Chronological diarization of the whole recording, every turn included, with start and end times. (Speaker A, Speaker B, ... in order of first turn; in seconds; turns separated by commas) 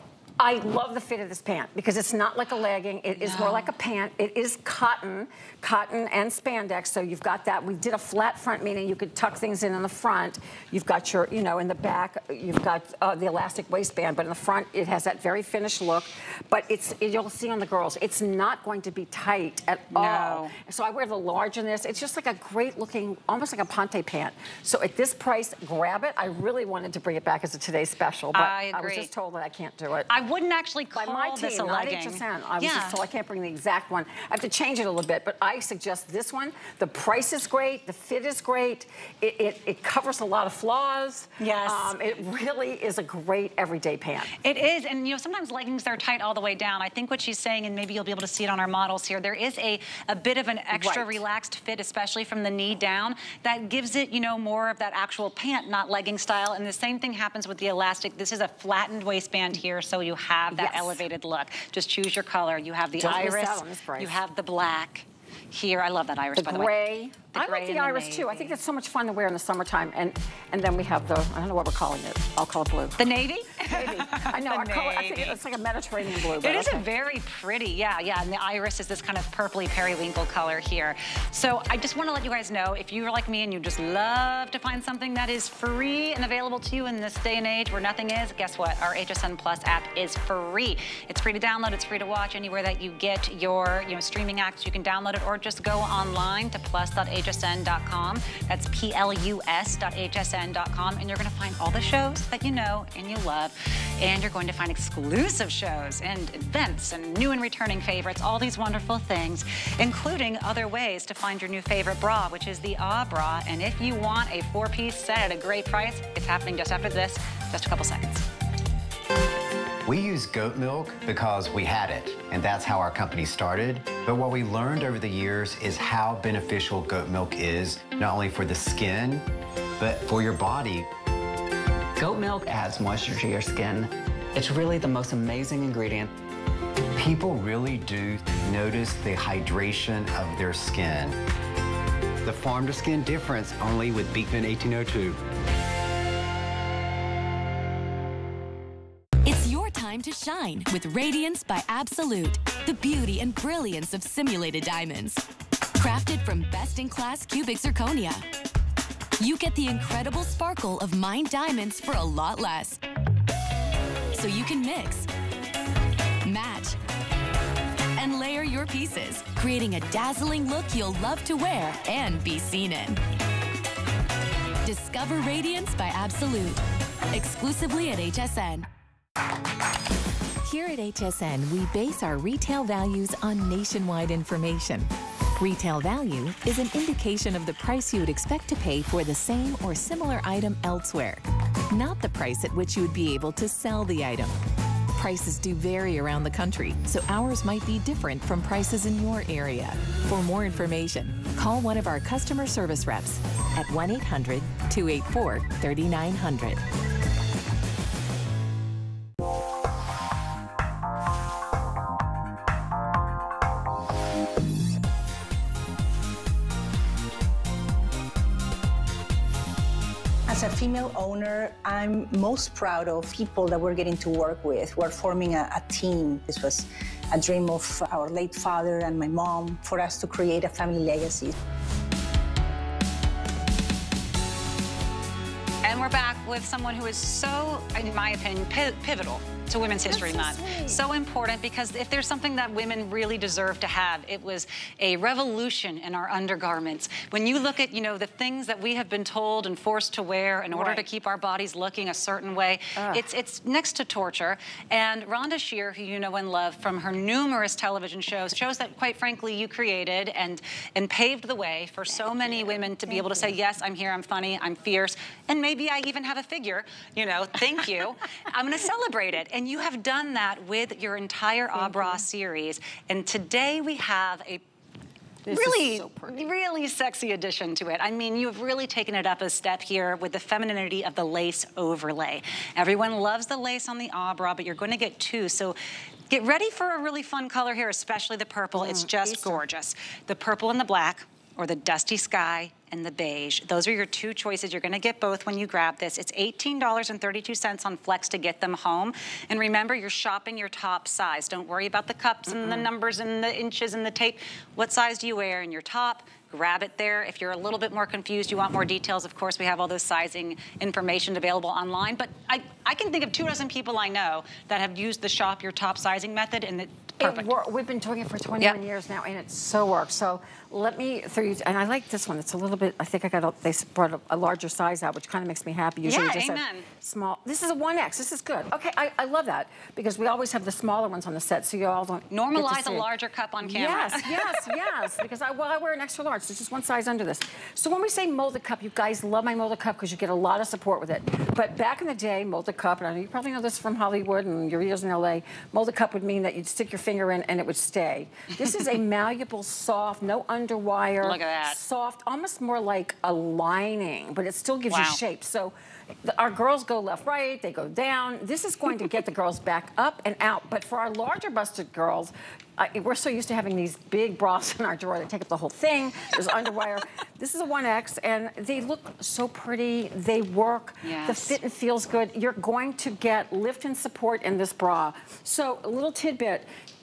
Speaker A: 0.4-30.2, Speaker B: 3.2-3.7, Speaker B: 19.9-20.6, Speaker B: 28.3-29.1, Speaker B: 30.1-33.0, Speaker A: 30.9-44.3, Speaker B: 41.4-42.0, Speaker B: 44.4-68.6, Speaker A: 50.7-51.2, Speaker A: 60.5-61.0, Speaker A: 63.0-64.2, Speaker A: 66.3-76.9, Speaker B: 73.0-75.4, Speaker B: 76.2-118.3, Speaker C: 119.8-129.3, Speaker C: 129.8-130.9, Speaker D: 132.0-136.1, Speaker C: 137.0-141.2, Speaker C: 142.2-145.2, Speaker E: 149.2-155.2, Speaker E: 155.8-158.2, Speaker E: 159.2-162.8, Speaker E: 164.1-165.1, Speaker E: 166.2-166.8, Speaker E: 168.0-173.0, Speaker E: 174.7-176.6, Speaker E: 177.1-178.7, Speaker E: 180.4-194.3, Speaker E: 195.0-206.6, Speaker F: 220.3-231.3, Speaker B: 235.6-274.4, Speaker A: 239.8-240.8, Speaker A: 250.5-250.8, Speaker A: 252.8-253.1, Speaker A: 261.9-263.3, Speaker A: 271.5-272.1, Speaker A: 275.3-276.3, Speaker B: 275.3-285.6, Speaker B: 286.1-317.3, Speaker A: 288.6-289.4, Speaker A: 302.3-302.7, Speaker A: 317.0-332.9, Speaker B: 325.8-326.7, Speaker B: 332.1-334.6, Speaker A: 333.4-376.5, Speaker B: 351.0-351.6, Speaker B: 354.7-355.0, Speaker B: 370.8-371.4